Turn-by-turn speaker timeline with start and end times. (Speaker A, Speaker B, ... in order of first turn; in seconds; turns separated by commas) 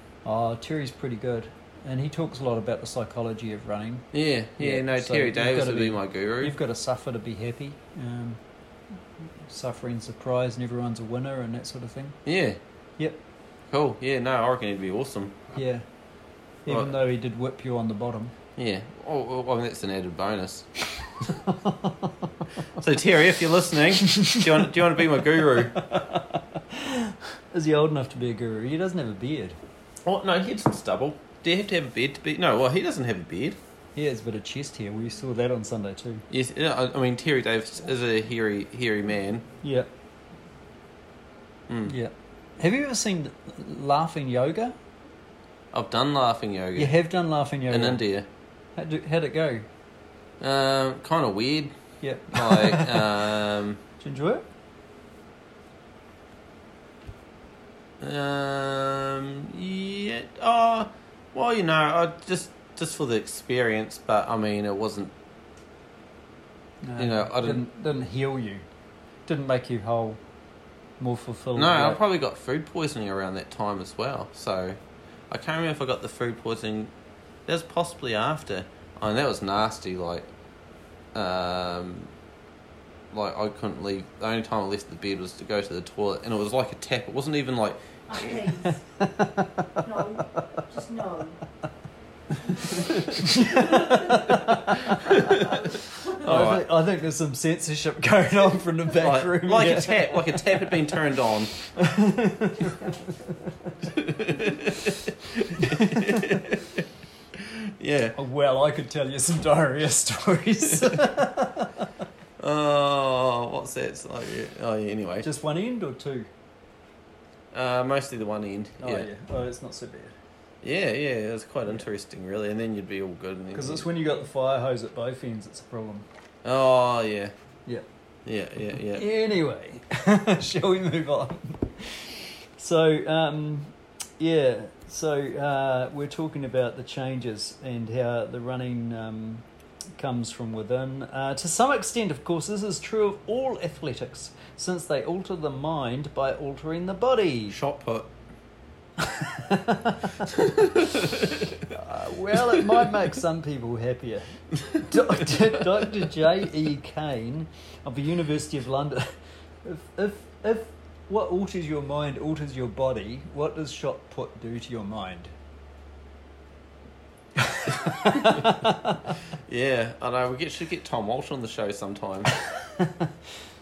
Speaker A: 0.2-4.1, Speaker B: 4.1-6.5, Speaker A: 4.6-8.4, Speaker A: 9.4-12.2, Speaker B: 12.2-12.6, Speaker B: 13.7-15.4, Speaker A: 15.5-15.8, Speaker A: 16.6-18.3, Speaker B: 16.7-16.9, Speaker B: 18.6-20.7, Speaker A: 21.2-22.4, Speaker B: 22.8-25.8, Speaker A: 24.1-24.4, Speaker A: 25.6-29.6, Speaker B: 30.0-33.6, Speaker A: 34.0-36.2, Speaker B: 36.3-39.5, Speaker A: 39.6-39.9, Speaker B: 41.7-41.9, Speaker A: 41.9-44.8, Speaker B: 45.7-46.9, Speaker A: 46.8-48.0, Speaker B: 47.7-48.3, Speaker A: 48.8-49.6, Speaker B: 50.4-51.7, Speaker A: 52.0-53.2, Speaker B: 52.3-53.8, Speaker A: 54.0-54.5, Speaker B: 58.0-65.1, Speaker A: 66.8-68.6, Speaker B: 67.0-67.6, Speaker A: 69.3-70.2, Speaker A: 71.0-72.0, Speaker B: 71.5-74.8, Speaker B: 75.3-76.9, Speaker B: 77.5-80.3, Speaker B: 81.1-82.1, Speaker B: 83.1-88.5, Speaker C: 88.1-88.8, Speaker A: 88.7-90.6, Speaker C: 89.8-91.4, Speaker A: 92.4-100.8, Speaker C: 92.5-94.5, Speaker B: 94.9-96.7, Speaker B: 99.0-101.5, Speaker A: 101.7-103.8, Speaker B: 103.8-108.1, Speaker A: 105.5-106.4, Speaker A: 108.1-111.9, Speaker B: 112.4-115.3, Speaker A: 115.2-116.3, Speaker B: 117.5-119.1, Speaker A: 118.8-120.2, Speaker B: 120.6-123.9, Speaker A: 123.5-126.0, Speaker B: 126.4-127.3, Speaker B: 128.2-129.1, Speaker A: 128.9-139.4, Speaker A: 140.0-147.6, Speaker B: 147.5-148.1, Speaker A: 149.0-150.6, Speaker B: 150.3-151.6, Speaker A: 151.7-159.1, Speaker A: 159.6-165.3, Speaker A: 167.4-169.2, Speaker B: 168.1-168.4, Speaker B: 169.4-172.3, Speaker A: 172.3-173.2